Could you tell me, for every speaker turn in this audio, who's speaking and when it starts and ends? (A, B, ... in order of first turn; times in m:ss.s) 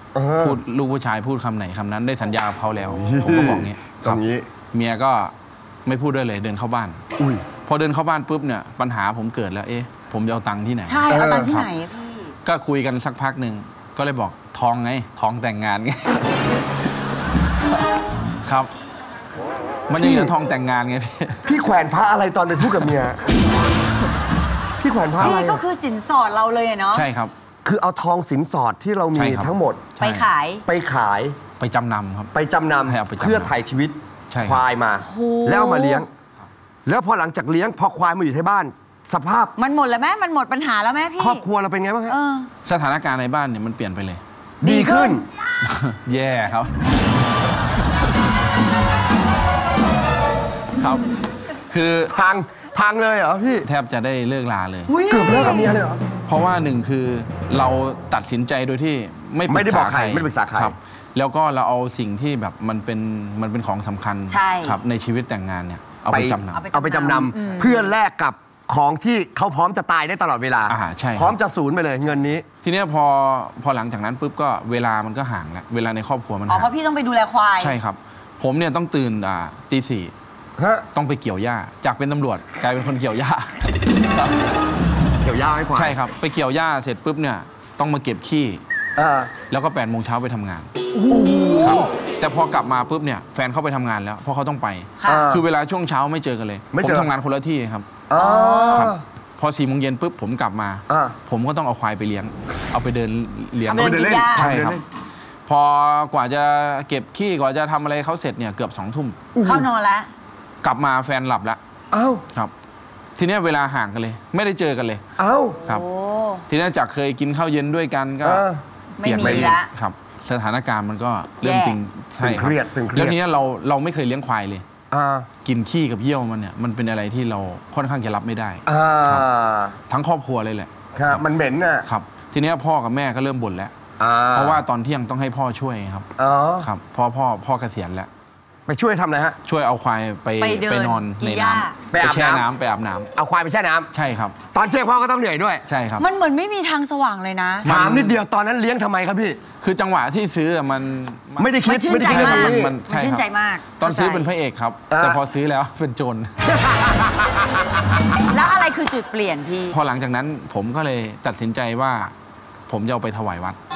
0:00.2-0:00.6 A
0:00.4-0:04.2 B
0:02.9-0:04.5 A
0:04.7-0:05.3 B
0:05.9-0:07.0 B
0:07.2-0:07.4 A
0:07.6-0:11.7 B
0:10.9-0:12.4 C
0:11.1-0:11.5 A
0:12.4-0:16.3 B
0:18.4-0:18.7 B
0:19.9-0:21.4 B
0:20.0-0:20.3 A
0:21.4-0:23.2 A
0:24.8-0:25.6 A
0:25.2-0:27.1 C
0:26.9-0:27.3 B
0:27.6-0:29.9 A
0:29.2-0:30.3 B
0:30.0-0:30.6 C
0:30.7-0:31.4 A
0:31.6-0:32.3 B
0:32.3-0:36.1 A
0:32.9-0:33.5 B
0:34.3-0:34.6 B
0:35.0-0:36.0 C
0:36.9-0:39.6 A
0:39.6-0:41.4 C
0:41.2-0:42.2 A
0:42.1-0:42.5 C
0:42.6-0:44.2 B
0:44.6-0:45.2 A
0:44.6-0:45.2 C
0:45.6-0:46.8 B
0:50.8-0:51.0 B
0:51.7-0:52.1 B
0:52.1-0:53.7 A
0:53.6-0:54.9 B
0:54.9-0:55.8 C
0:55.1-0:56.0 A
0:56.3-1:06.6 B
0:59.5-1:00.8 A
1:04.3-1:04.8 C
1:06.1-1:12.4 A
1:06.5-1:07.9 C
1:10.7-1:11.4 B
1:12.6-1:16.7 B
1:16.5-1:17.8 C
1:17.6-1:20.1 B
1:20.6-1:20.9 A
1:20.9-1:23.6 B
1:25.2-1:26.0 A
1:25.7-1:28.6 B
1:29.0-1:29.3 A
1:29.5-1:30.7 B
1:30.9-1:31.9 A
1:31.1-1:31.8 C
1:31.6-1:37.9 B
1:35.0-1:35.3 C
1:35.0-1:35.4 A
1:36.7-1:37.1 A
1:38.1-1:39.0 A
1:38.2-1:38.9 C
1:38.7-1:44.8 B
1:40.9-1:41.2 A
1:43.7-1:44.5 C
1:43.7-1:44.8 A
1:45.5-1:49.2 B
1:49.3-1:49.7 A
1:49.4-1:50.1 C
1:50.6-1:51.6 B
1:51.9-1:52.2 A
1:53.2-1:55.0 B
1:55.2-1:55.6 A
1:55.6-1:56.4 C
1:56.5-1:58.4 B
1:58.2-1:58.6 A
1:59.0-1:59.7 C
1:59.0-2:04.6 B
1:59.2-1:59.6 A
2:01.4-2:01.8 C
2:02.2-2:03.2 A
2:04.9-2:05.3 A
2:05.4-2:09.2 B
2:08.7-2:09.8 A
2:09.9-2:11.2 B
2:11.0-2:11.9 A
2:11.9-2:13.7 B
2:14.0-2:14.6 A
2:14.3-2:16.1 B
2:16.2-2:16.7 A
2:16.6-2:18.1 B
2:18.7-2:19.4 A
2:19.4-2:23.1 B
2:20.4-2:21.8 C
2:21.9-2:22.5 A
2:23.2-2:23.9 A
2:23.9-2:24.4 B
2:24.5-2:25.6 A
2:25.7-2:26.1 B
2:26.0-2:27.7 C
2:27.6-2:28.2 B
2:27.6-2:29.4 A
2:29.6-2:33.2 B
2:31.4-2:32.8 A
2:31.7-2:34.3 C
2:33.8-2:36.3 B
2:34.9-2:35.2 A
2:36.7-2:37.4 A
2:38.3-2:39.8 C
2:39.7-2:42.1 B
2:42.7-2:43.6 B